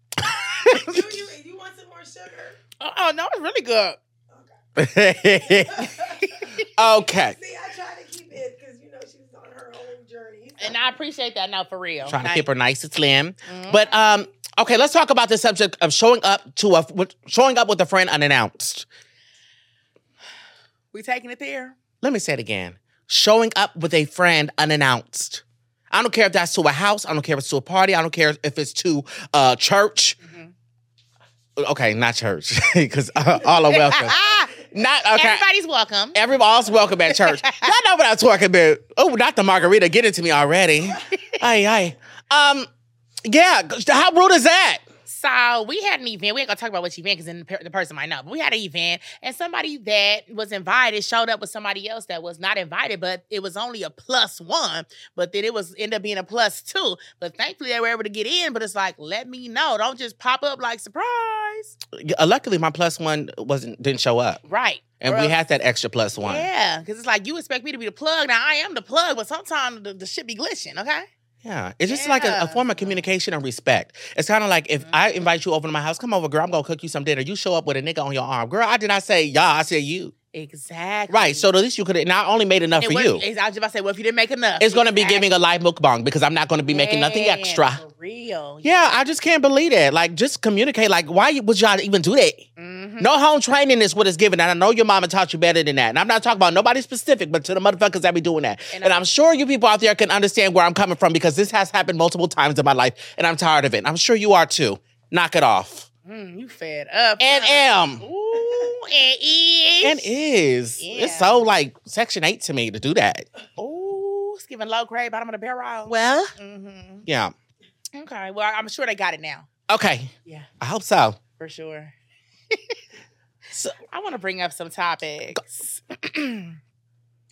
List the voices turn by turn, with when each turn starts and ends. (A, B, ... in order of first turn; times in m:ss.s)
0:00.6-0:02.6 A
0:02.8-0:04.0 B
0:04.3-0:04.5 A
0:04.8-0:06.1 C
0:05.3-0:10.9 A
0:06.7-0:07.4 C
0:10.6-0:12.4 B
0:12.0-0:18.8 C
0:13.4-0:14.0 B
0:20.9-0:21.7 B
0:22.0-0:30.2 C
0:30.2-0:30.5 B
0:31.6-0:35.4 C
0:33.6-0:34.5 B
0:35.1-0:36.2 B
0:36.1-0:42.7 C
0:37.1-0:37.7 B
0:43.2-0:44.8 C
0:45.1-1:01.8 B
1:01.9-1:04.4 C
1:04.4-1:05.3 B
1:05.0-1:06.5 C
1:06.2-1:11.1 B
1:11.4-1:20.1 C
1:11.9-1:13.0 B
1:20.3-1:21.5 B
1:21.1-1:23.2 C
1:22.8-1:25.2 B
1:24.6-1:27.8 C
1:26.7-1:29.0 B
1:28.6-1:32.4 C
1:32.6-1:33.1 B
1:33.0-1:45.9 C
1:38.7-1:39.0 B
1:46.0-1:50.1 B
1:47.2-1:48.0 C
1:49.8-1:53.2 C
1:50.8-1:51.4 B
1:53.6-1:57.0 B
1:55.9-1:56.3 C
1:57.1-1:57.3 C
1:57.9-1:59.5 B
1:59.7-2:01.2 C
2:01.4-2:01.9 B
2:03.9-2:06.6 B